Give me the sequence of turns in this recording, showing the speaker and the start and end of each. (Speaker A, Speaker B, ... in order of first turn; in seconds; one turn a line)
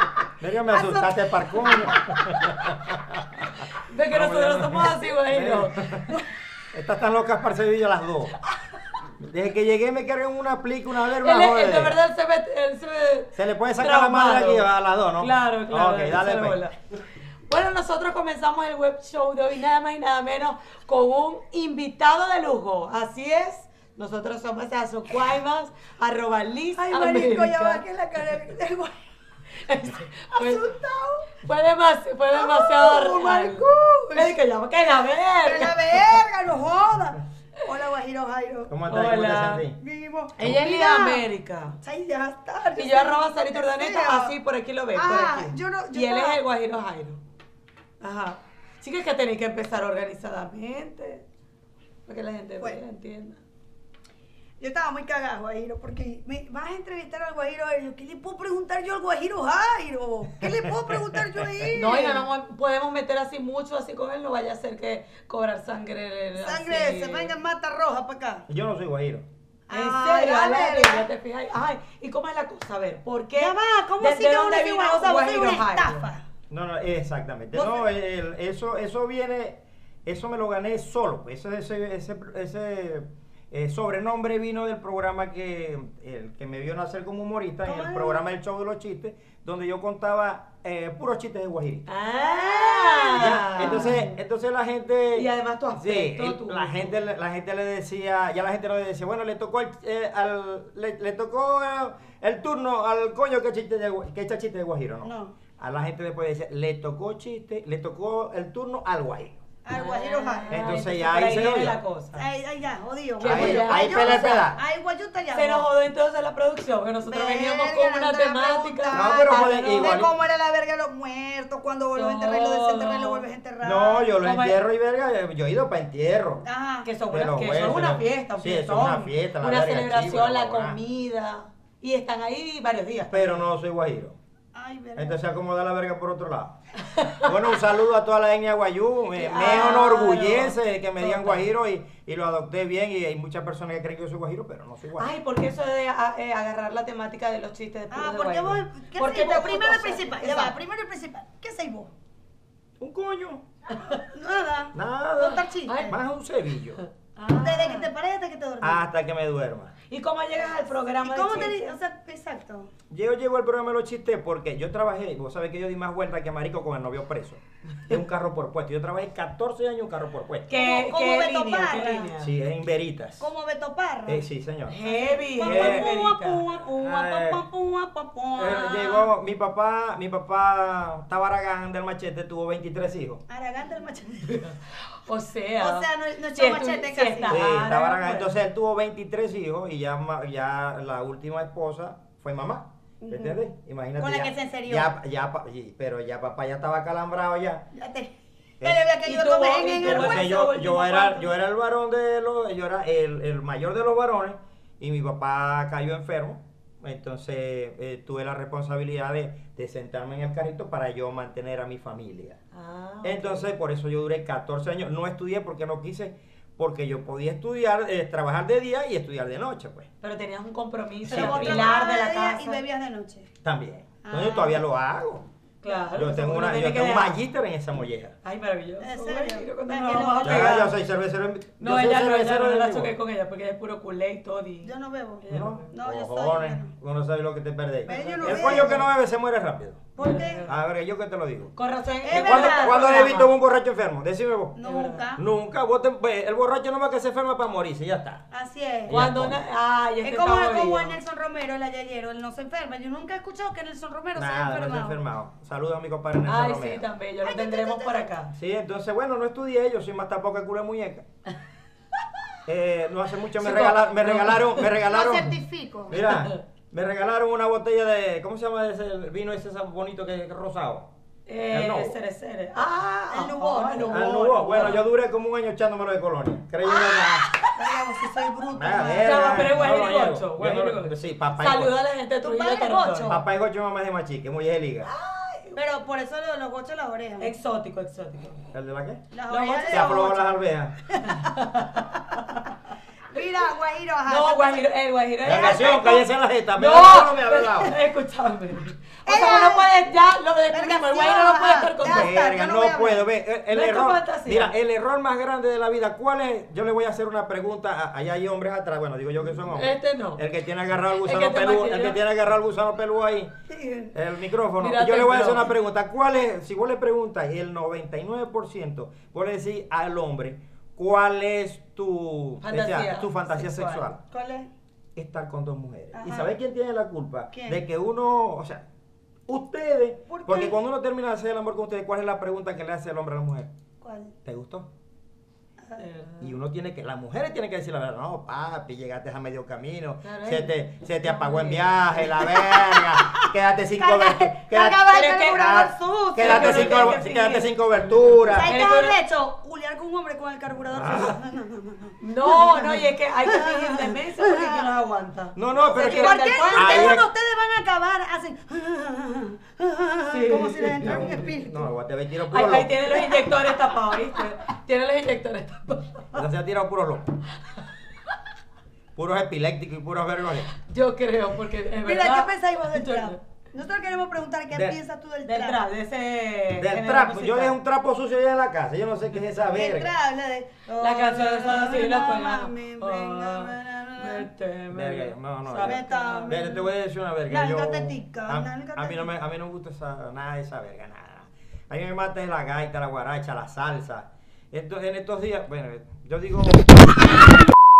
Speaker A: 0.4-6.1
Speaker B: 0.7-2.2
Speaker C: 3.8-6.1
Speaker A: 6.7-8.3
Speaker A: 9.0-12.0
Speaker C: 11.2-14.7
Speaker A: 13.3-16.6
Speaker C: 15.2-16.8
Speaker C: 17.5-27.8
Speaker B: 26.8-29.0
Speaker C: 29.5-36.0
Speaker B: 30.3-31.2
Speaker B: 32.3-34.4
Speaker B: 35.4-38.7
Speaker A: 38.7-39.8
Speaker C: 38.9-39.6
Speaker B: 39.8-41.2
Speaker C: 40.4-41.8
Speaker B: 41.8-44.3
Speaker C: 42.7-47.2
Speaker B: 44.9-46.4
Speaker C: 48.0-51.2
Speaker C: 52.1-53.4
Speaker B: 54.6-62.2
Speaker A: 60.4-61.5
Speaker C: 61.7-67.3
Speaker B: 66.3-68.5
Speaker A: 68.5-69.2
Speaker B: 69.7-71.0
Speaker C: 69.7-76.1
Speaker B: 73.3-76.2
Speaker A: 76.5-91.9
Speaker C: 77.5-77.8
Speaker B: 87.6-88.2
Speaker C: 91.8-94.1
Speaker B: 92.3-93.8
Speaker A: 93.1-109.4
Speaker C: 95.1-96.9
Speaker B: 105.0-105.3
Speaker B: 109.6-110.7
Speaker C: 109.7-112.2
Speaker A: 110.5-111.8
Speaker B: 112.2-115.7
Speaker C: 113.2-114.4
Speaker A: 113.2-114.6
Speaker C: 115.3-120.0
Speaker B: 117.0-124.1
Speaker A: 118.9-120.1
Speaker C: 121.9-123.2
Speaker A: 123.6-126.4
Speaker C: 124.2-124.6
Speaker B: 126.4-126.9
Speaker C: 126.8-133.4
Speaker A: 127.1-130.8
Speaker A: 133.1-134.2
Speaker B: 134.5-135.2
Speaker A: 134.9-136.6
Speaker C: 136.9-137.3
Speaker A: 137.2-145.1
Speaker C: 139.1-141.5
Speaker B: 139.4-139.8
Speaker C: 145.0-150.5
Speaker B: 147.9-151.9
Speaker A: 152.8-153.4
Speaker B: 153.9-155.9
Speaker A: 154.7-156.8
Speaker C: 155.7-155.9
Speaker C: 156.8-157.9
Speaker B: 157.4-158.8
Speaker A: 158.6-159.7
Speaker C: 159.9-161.8
Speaker B: 161.0-162.7
Speaker A: 162.9-170.5
Speaker C: 170.5-172.3
Speaker B: 170.5-172.1
Speaker A: 172.2-173.3
Speaker B: 173.2-174.2
Speaker A: 174.1-174.8
Speaker C: 174.7-176.4
Speaker B: 174.8-179.1
Speaker A: 175.4-175.9
Speaker A: 176.8-177.4
Speaker A: 178.3-183.2
Speaker B: 183.3-184.5
Speaker C: 184.3-188.3
Speaker B: 185.6-187.3
Speaker A: 187.3-197.7
Speaker B: 193.0-193.4
Speaker B: 194.0-194.9
Speaker B: 197.7-200.3
Speaker C: 199.0-201.3
Speaker A: 199.8-212.4
Speaker C: 212.5-213.5
Speaker A: 213.0-219.9
Speaker C: 220.0-222.6
Speaker A: 221.1-221.7
Speaker B: 221.1-223.3
Speaker A: 223.4-225.2
Speaker B: 224.0-224.6
Speaker C: 225.6-227.2
Speaker A: 225.9-228.1
Speaker C: 228.2-230.7
Speaker B: 228.8-230.6
Speaker A: 230.2-232.9
Speaker C: 231.6-235.7
Speaker B: 234.6-236.7
Speaker A: 235.3-239.9
Speaker C: 237.9-238.7
Speaker B: 237.9-238.9
Speaker B: 239.9-240.5
Speaker C: 240.0-240.5
Speaker A: 240.4-241.5
Speaker C: 241.6-243.3
Speaker B: 242.0-243.0
Speaker A: 242.1-244.6
Speaker B: 244.6-245.2
Speaker C: 244.6-245.0
Speaker A: 245.2-248.2
Speaker B: 248.3-249.0
Speaker A: 248.9-249.4
Speaker C: 248.9-251.0
Speaker B: 250.0-255.0
Speaker A: 254.1-256.9
Speaker C: 256.2-258.3
Speaker B: 257.2-258.1
Speaker A: 258.3-261.0
Speaker A: 262.4-265.3
Speaker C: 263.4-264.6
Speaker B: 264.8-266.0
Speaker A: 265.9-270.9
Speaker C: 266.1-266.3
Speaker C: 271.3-274.8
Speaker A: 271.5-272.0
Speaker B: 273.1-274.8
Speaker A: 273.8-277.3
Speaker B: 277.5-279.6
Speaker A: 278.5-281.7
Speaker C: 279.0-283.1
Speaker B: 282.2-283.2
Speaker A: 283.1-284.9
Speaker C: 284.8-285.6
Speaker B: 285.6-287.3
Speaker C: 287.2-288.4
Speaker A: 288.5-289.0
Speaker B: 289.1-290.2
Speaker C: 289.3-290.1
Speaker A: 289.7-290.8
Speaker B: 290.9-291.2
Speaker C: 291.0-292.5
Speaker B: 293.1-294.7
Speaker C: 294.1-295.9
Speaker B: 295.2-296.1
Speaker A: 295.2-297.7
Speaker C: 296.5-302.1
Speaker B: 299.1-299.8
Speaker B: 300.5-303.0
Speaker A: 301.9-313.3
Speaker C: 303.5-304.5
Speaker C: 309.5-310.2
Speaker C: 311.0-312.0
Speaker B: 313.5-313.9
Speaker A: 313.9-324.0
Speaker C: 314.6-315.5
Speaker C: 322.4-323.9
Speaker B: 324.1-324.5
Speaker A: 324.9-328.6
Speaker B: 325.9-326.4
Speaker B: 327.3-327.6
Speaker A: 329.3-333.5
Speaker B: 330.1-330.5
Speaker B: 333.8-334.1
Speaker A: 334.2-334.7
Speaker C: 335.8-336.3
Speaker A: 336.2-348.5
Speaker C: 340.0-341.8
Speaker B: 342.1-347.0
Speaker C: 344.9-345.4
Speaker C: 346.2-349.0
Speaker B: 348.3-354.7
Speaker A: 350.7-351.2
Speaker C: 352.0-357.0
Speaker A: 355.4-357.1
Speaker B: 355.6-361.7
Speaker C: 360.1-361.3
Speaker A: 360.8-362.9
Speaker C: 362.3-366.2
Speaker A: 366.1-367.1
Speaker A: 368.9-370.5
Speaker C: 370.6-373.2
Speaker B: 371.8-375.6
Speaker A: 374.5-374.8
Speaker C: 375.2-377.6
Speaker A: 376.6-379.9
Speaker B: 379.5-384.3
Speaker C: 380.8-386.5
Speaker A: 384.7-397.0
Speaker B: 385.6-386.7
Speaker B: 387.3-389.1